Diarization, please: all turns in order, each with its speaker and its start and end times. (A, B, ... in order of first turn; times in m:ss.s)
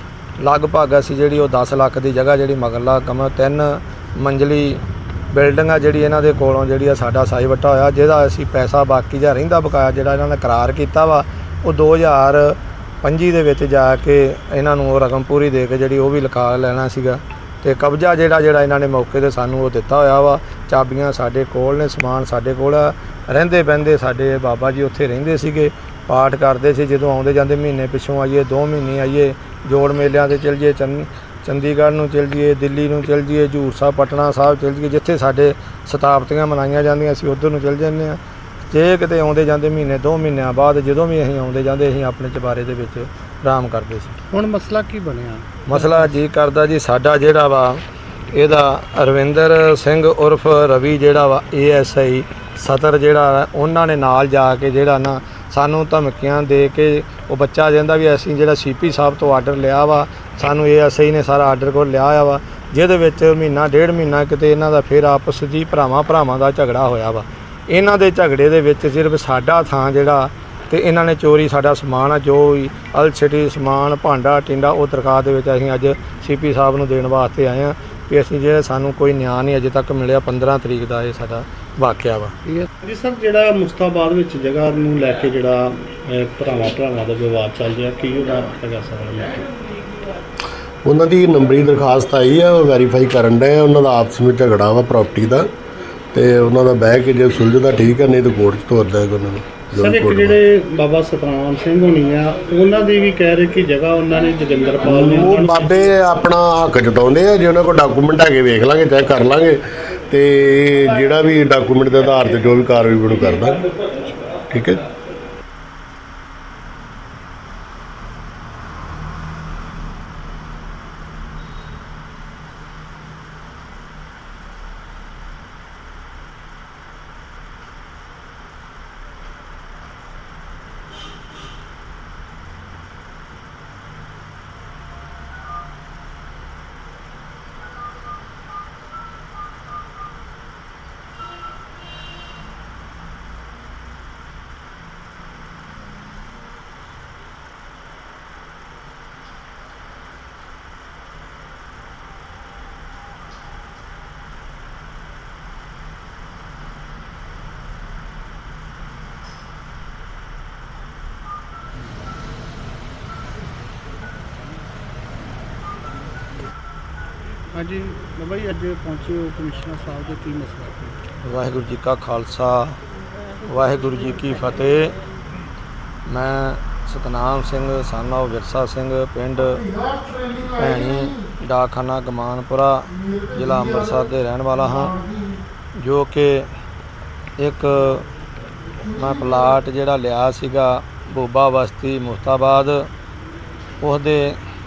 0:00.4-0:38.2 A
0:38.7-0:44.2 A
0:44.3-0:46.1 B
0:45.7-1:22.4 A
1:22.5-1:29.5 B
1:30.8-1:35.5 C
1:36.1-1:40.4 C
1:39.7-1:45.9 B
1:44.8-1:49.6 C
1:50.1-1:53.7 C
1:54.5-1:54.8 C
2:47.6-2:51.0 B
2:51.2-2:52.8 A
2:53.4-2:55.0 A
2:56.1-2:59.7 A
3:00.4-3:05.0 A
3:05.8-3:06.5 A
3:07.4-3:08.1 A
3:08.9-3:12.9 A
3:13.8-3:14.4 A